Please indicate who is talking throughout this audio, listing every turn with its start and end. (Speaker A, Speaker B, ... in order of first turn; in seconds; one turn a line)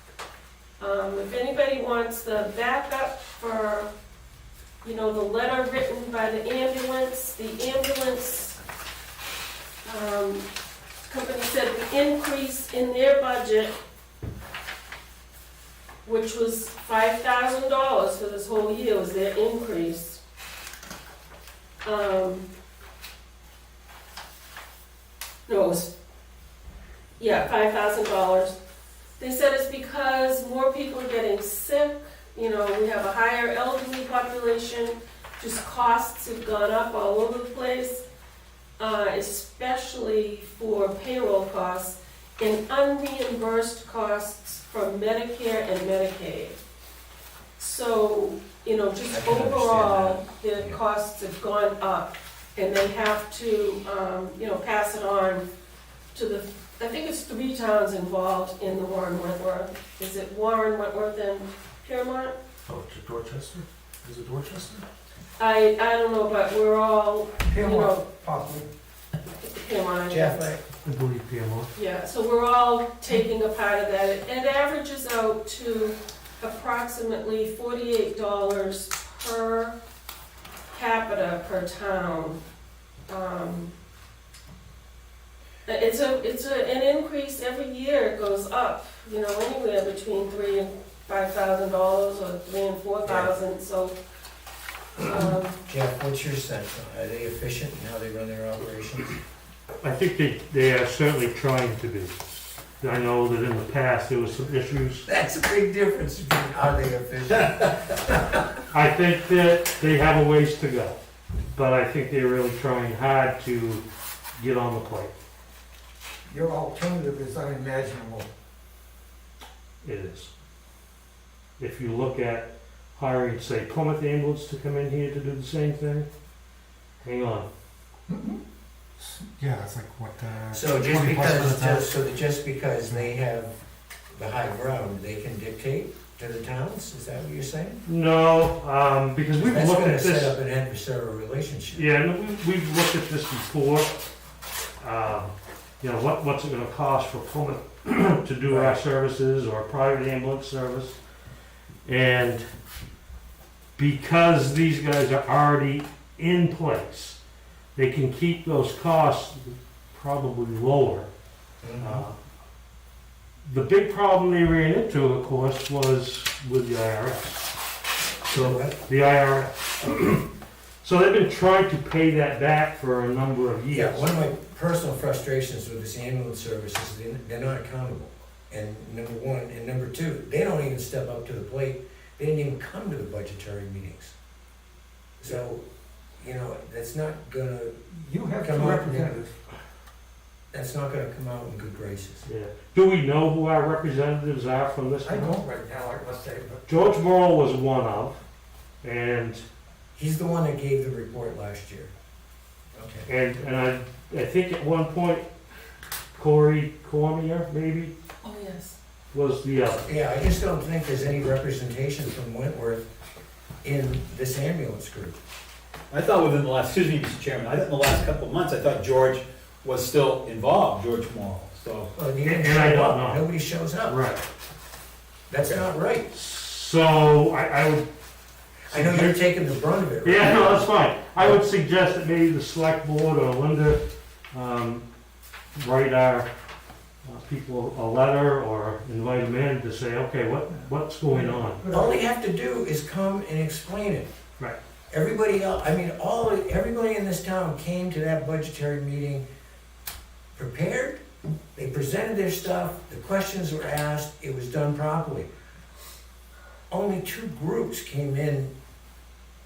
Speaker A: 0.8-3.9
Speaker A: 4.8-8.6
Speaker A: 9.8-10.4
Speaker A: 11.1-13.8
Speaker A: 16.0-20.2
Speaker A: 21.8-22.5
Speaker A: 25.5-25.9
Speaker A: 27.2-28.5
Speaker A: 29.2-38.0
Speaker A: 38.8-46.6
Speaker A: 47.6-55.5
Speaker B: 49.1-50.8
Speaker A: 56.1-62.4
Speaker C: 62.7-64.8
Speaker A: 65.4-68.0
Speaker D: 67.5-68.7
Speaker A: 69.3-70.4
Speaker B: 70.1-70.6
Speaker E: 70.8-71.7
Speaker A: 71.7-79.7
Speaker A: 80.7-82.4
Speaker A: 83.1-83.7
Speaker A: 85.7-94.0
Speaker B: 93.0-93.3
Speaker A: 95.0-95.6
Speaker B: 95.0-99.2
Speaker E: 99.8-105.0
Speaker B: 105.0-108.4
Speaker E: 108.7-111.0
Speaker E: 111.5-113.8
Speaker E: 114.4-115.1
Speaker D: 116.3-118.3
Speaker E: 119.8-120.3
Speaker E: 121.6-126.1
Speaker E: 127.0-127.5
Speaker D: 128.1-128.4
Speaker C: 129.0-131.8
Speaker B: 130.5-133.5
Speaker B: 134.1-137.8
Speaker E: 137.8-140.3
Speaker B: 139.4-141.8
Speaker E: 141.7-143.9
Speaker E: 144.8-151.0
Speaker B: 148.5-148.8
Speaker E: 151.8-152.4
Speaker E: 153.8-157.2
Speaker E: 157.7-161.1
Speaker B: 161.6-162.1
Speaker E: 161.8-162.2
Speaker E: 163.4-167.5
Speaker E: 168.3-170.3
Speaker B: 168.3-168.7
Speaker E: 170.8-174.1
Speaker B: 173.7-184.1
Speaker B: 185.2-185.6
Speaker B: 186.2-187.9
Speaker D: 188.0-189.3
Speaker B: 188.4-189.2
Speaker B: 190.5-192.2
Speaker E: 192.2-195.4
Speaker D: 195.0-196.6
Speaker E: 196.7-198.2
Speaker E: 198.8-199.4
Speaker B: 199.9-201.9
Speaker B: 202.7-203.1
Speaker E: 203.1-205.3
Speaker E: 206.2-207.9
Speaker A: 208.2-208.8
Speaker E: 209.1-209.8
Speaker B: 209.8-212.8
Speaker B: 213.6-215.2
Speaker F: 215.9-221.9
Speaker B: 221.9-224.0
Speaker E: 222.2-223.2
Speaker E: 223.8-224.2
Speaker B: 225.3-226.1
Speaker E: 226.1-227.9
Speaker B: 228.7-231.4
Speaker E: 228.7-229.2
Speaker E: 230.0-233.8
Speaker E: 234.3-234.8
Speaker E: 235.5-236.3
Speaker E: 237.0-241.6
Speaker D: 241.0-242.0
Speaker B: 241.7-244.1
Speaker B: 244.9-249.2
Speaker B: 250.3-251.0
Speaker B: 251.5-255.3
Speaker B: 256.7-258.5